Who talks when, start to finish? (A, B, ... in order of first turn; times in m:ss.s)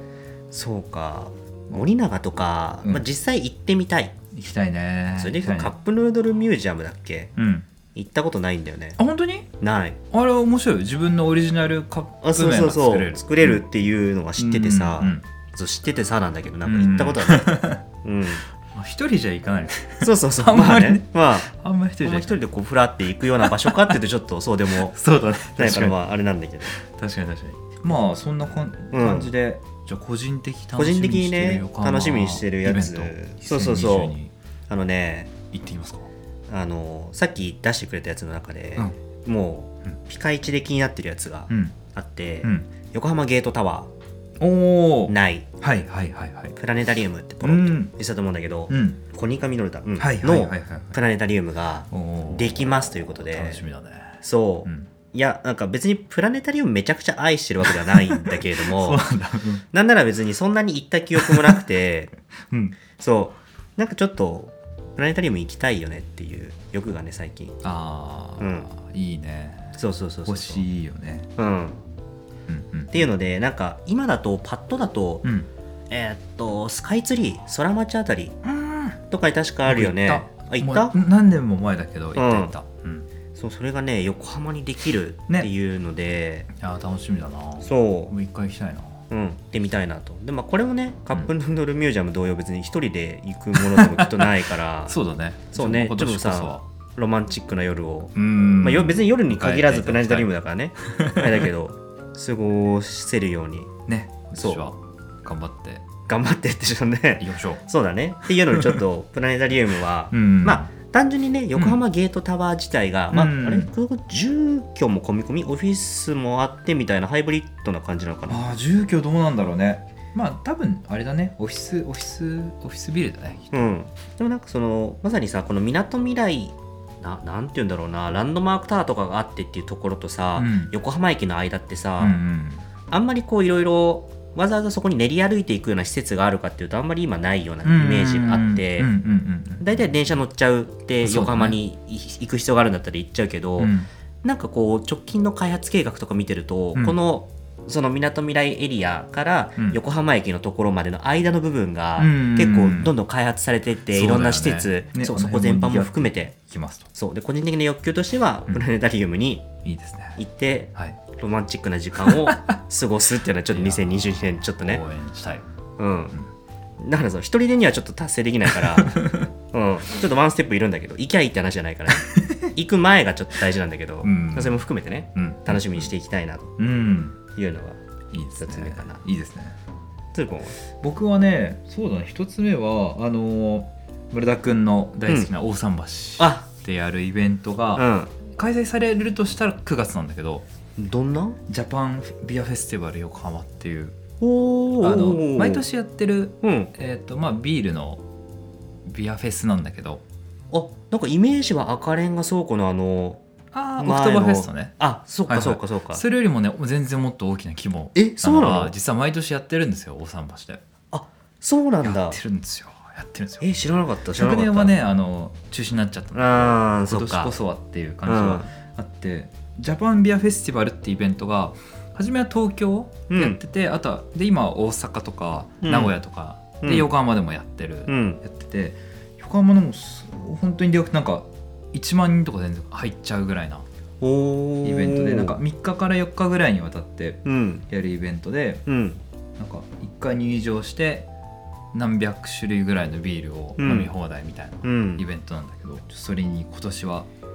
0:00.5-0:04.1 A
0:04.3-0:05.7 B
0:05.2-0:07.3 A
0:07.4-0:07.7 B
0:08.0-0:09.0 A
0:09.0-0:09.5 B
0:09.6-0:10.0 A
0:10.1-0:13.6 B
0:12.2-0:17.5 A
0:14.4-0:15.2 B
0:16.6-0:17.8 B
0:18.0-0:18.4 A
0:18.7-0:22.4 B
0:20.0-0:21.5 A
0:22.0-0:25.0 A
0:23.4-0:24.0 B
0:24.9-0:26.0 B
0:25.6-0:26.7 A
0:26.7-0:34.3 B
0:28.9-0:29.3 A
0:30.8-0:34.1 A
0:34.7-0:35.3 A
0:35.5-0:36.1 B
0:36.5-0:43.9 A
0:41.5-0:41.8 B
0:42.4-0:42.7 B
0:44.4-0:46.6 B
0:45.1-0:45.5 A
0:46.6-0:53.6 A
0:47.4-0:47.9 B
0:48.7-0:49.0 B
0:50.0-0:51.0 B
0:51.9-0:54.9 B
0:54.2-0:59.0 A
0:57.7-0:59.6 B
0:59.7-1:02.1 A
1:01.2-1:01.6 B
1:02.5-1:02.8 B
1:03.0-1:07.6 A
1:07.6-1:11.3 B
1:08.4-1:08.7 A
1:09.8-1:10.6 A
1:11.4-1:11.8 A
1:12.5-1:13.1 B
1:12.9-1:15.2 A
1:15.9-1:18.4 A
1:18.4-1:19.0 B
1:19.1-1:20.9 A
1:19.7-1:23.1 B
1:22.2-1:22.5 A
1:23.4-1:26.5 A
1:26.6-1:29.0 B
1:27.6-1:28.1 A
1:29.1-1:35.0 A
1:33.6-1:34.3 B
1:34.9-1:36.6 B
1:35.5-1:43.7 A
1:38.1-1:40.3 B
1:40.8-1:41.4 B
1:43.9-1:45.9 B
1:46.1-1:58.4 A
1:47.2-1:47.6 B
1:48.5-1:48.8 B
1:50.1-1:50.7 B
1:53.1-1:53.7 B
1:58.3-2:03.7 B
2:03.5-2:12.2 A
2:10.4-2:10.7 B
2:12.0-2:12.7 B
2:12.9-2:18.9 A
2:17.6-2:20.0 B
2:19.6-2:23.7 A
2:21.0-2:21.6 B
2:23.6-2:23.9 B
2:24.2-2:36.3 A
2:32.0-2:32.9 B
2:33.9-2:36.9 B
2:37.0-2:39.5 A
2:39.6-2:40.2 B
2:40.2-2:44.8 A
2:42.0-2:42.6 B
2:43.5-2:45.4 B
2:45.8-2:46.1 A
2:46.8-2:56.5 A
2:48.8-2:49.3 B
2:51.9-2:52.5 B
2:54.0-2:55.9 B
2:56.6-2:57.2 B
2:57.4-2:57.8 A
2:58.1-2:59.6 B
2:58.4-2:59.0 A
3:00.1-3:00.6 A
3:00.8-3:10.4 B
3:06.2-3:06.4 A
3:07.8-3:08.1 A
3:10.8-3:11.4 A
3:11.5-3:14.0 B
3:14.2-3:15.6 A
3:14.8-3:18.0 B
3:16.4-3:16.7 A
3:18.9-3:20.0 B
3:20.5-3:23.2 A
3:23.5-3:24.7 B
3:23.8-3:26.0 A
3:25.3-3:30.6 B
3:28.0-3:28.7 A
3:30.9-3:32.2 A
3:31.8-3:33.5 B
3:33.4-3:34.7 A
3:34.1-3:53.6 B
3:36.1-3:37.3 A
3:38.1-3:38.5 A
3:43.1-3:43.4 A
3:45.6-3:46.0 A
3:46.6-3:46.9 A
3:47.9-3:48.2 A
3:54.0-3:55.4 A
3:54.6-3:58.6 B
3:57.2-3:57.6 A
3:58.7-3:59.0 A
3:59.4-4:01.1 B
4:01.7-4:07.1 B
4:03.6-4:03.9 A
4:04.6-4:05.0 A